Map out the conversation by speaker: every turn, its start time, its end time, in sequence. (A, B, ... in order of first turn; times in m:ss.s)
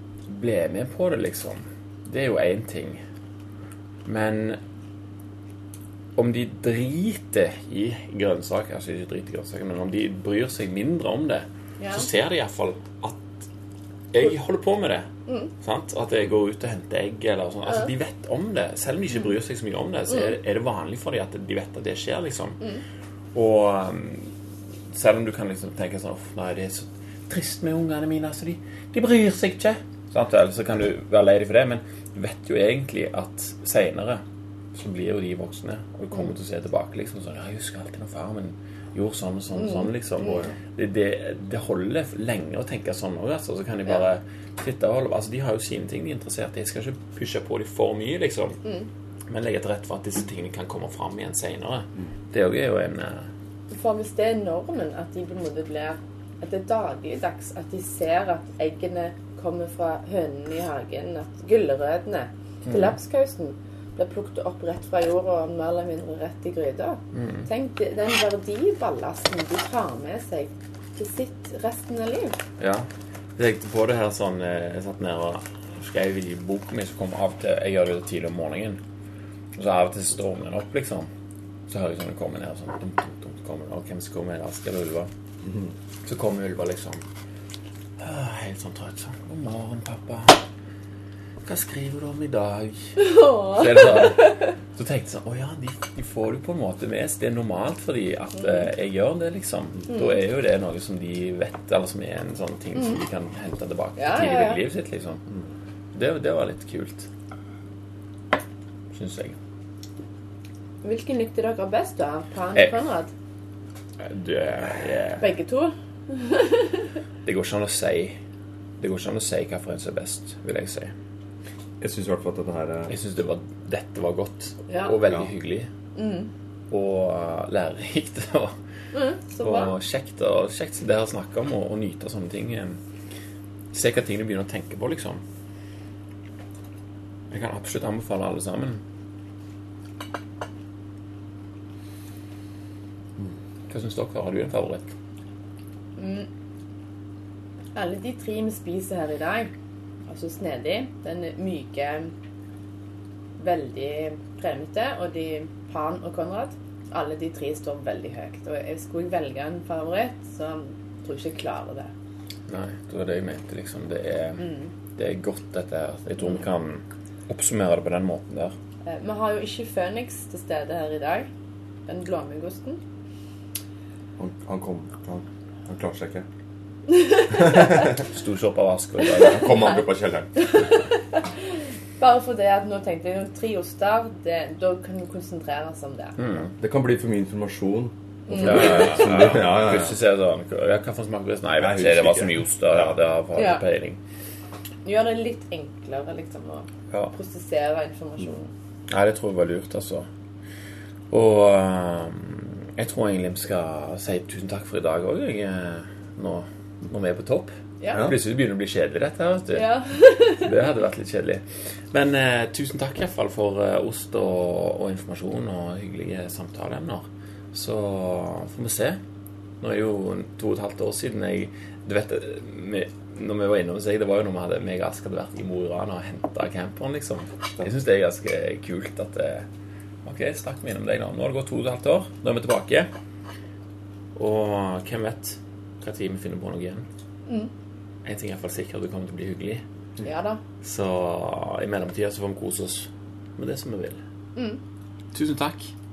0:00.3-0:03.0 A
0:04.0-0:04.6 A
0:06.2-0:13.4 A
0:11.8-0:12.1 B
0:14.1-0:15.1 A
0:15.6-0:22.6 A
0:23.3-0:24.3 A
0:24.9-0:34.2 A
0:34.7-0:48.6 A
0:39.6-0:40.4 B
0:49.3-0:53.3 A
0:53.7-1:12.4 B
1:02.6-1:02.9 A
1:07.1-1:07.4 A
1:12.6-1:18.8 A
1:19.5-1:21.1 A
1:21.7-1:25.1 A
1:25.4-1:25.7 C
1:26.0-1:27.0 A
1:28.0-1:30.4 A
1:31.4-1:45.2 A
1:33.0-1:34.5 B
1:39.9-1:40.2 B
1:44.0-1:44.6 B
1:45.9-1:47.1 A
1:48.9-1:49.4 A
1:50.8-1:53.1 B
1:54.0-1:55.3 A
1:55.2-1:56.9 B
1:57.2-1:58.2 A
1:58.8-2:00.9 A
2:01.8-2:02.9 C
2:02.9-2:05.7 A
2:04.7-2:05.0 B
2:06.0-2:06.3 B
2:06.7-2:08.6 A
2:08.9-2:09.7 B
2:09.4-2:12.8 A
2:13.7-2:15.2 A
2:17.3-2:18.8 A
2:23.7-2:24.9 A
2:26.0-2:26.3 B
2:27.7-2:29.5 B
2:30.1-2:32.1 B
2:33.4-2:41.9 B
2:42.5-2:48.5 A
2:44.4-2:44.7 B
2:48.8-2:51.3 B
2:51.9-2:52.8 B
2:54.2-2:56.2 C
2:56.9-2:57.3 B
2:57.3-2:58.0 C
2:58.0-2:59.7 A
2:59.2-3:00.4 C
3:00.4-3:06.2 B
3:06.2-3:06.5 A
3:06.6-3:10.0 C
3:08.3-3:08.8 B
3:08.3-3:14.0 A
3:11.6-3:12.4 C
3:13.3-3:13.6 B
3:14.8-3:18.5 B
3:16.9-3:17.2 A
3:18.9-3:20.1 A
3:21.1-3:29.7 A
3:27.8-3:28.1 B
3:29.5-3:30.5 B
3:30.3-3:39.0 A
3:39.6-3:49.5 A
3:50.0-3:52.9 A
3:54.2-3:56.8 A
3:58.0-3:59.6 A
4:00.0-4:00.4 B
4:00.6-4:04.0 A
4:04.3-4:04.6 B
4:05.1-4:05.7 A